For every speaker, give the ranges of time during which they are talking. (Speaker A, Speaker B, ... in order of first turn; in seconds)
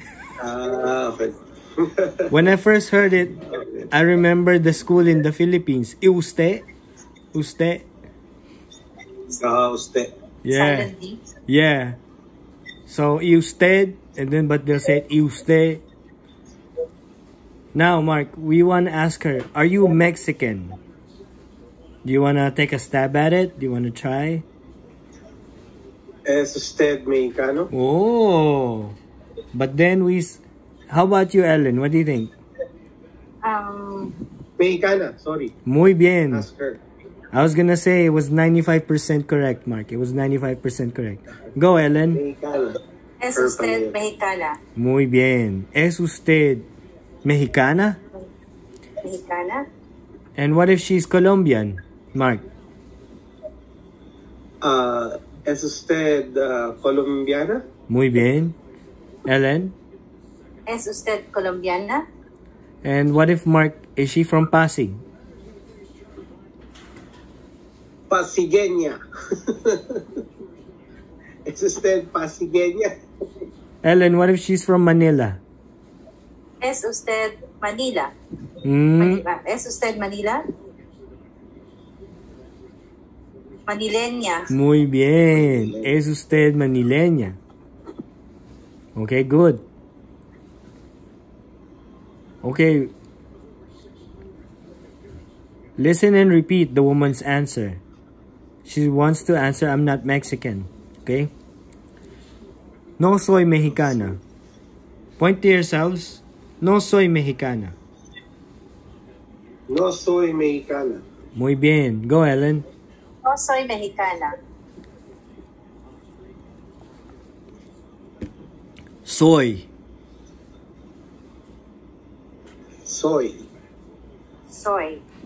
Speaker A: 0.4-2.3, 3.5-3.8, 9.3-10.1, 26.3-27.7, 34.6-35.5, 36.3-36.8, 42.1-42.8, 43.4-44.0, 54.6-57.6, 68.1-70.2, 71.5-73.0, 85.3-85.9, 109.7-111.0, 122.8-123.5
Speaker B: 2.3-3.4, 3.9-6.6, 7.3-7.9, 10.4-10.9, 11.5-12.0, 12.9-15.8, 17.7-20.8, 22.1-24.4, 27.7-29.0, 29.5-32.3, 35.6-36.5, 37.3-42.2, 44.8-46.7, 47.2-48.0, 50.4-52.4, 57.9-58.6, 59.3-59.8, 62.8-65.0, 73.8-75.4, 78.6-79.2, 84.5-87.4, 88.9-89.6, 92.4-92.9, 95.8-97.8, 98.6-101.3, 103.0-104.2, 105.2-107.8, 111.3-112.6, 119.0-119.7
Speaker C: 10.5-11.2, 33.4-34.2, 43.2-44.6, 49.0-49.7, 60.7-62.1, 76.6-78.1, 79.0-80.5, 83.7-84.5, 113.2-114.4, 124.5-125.0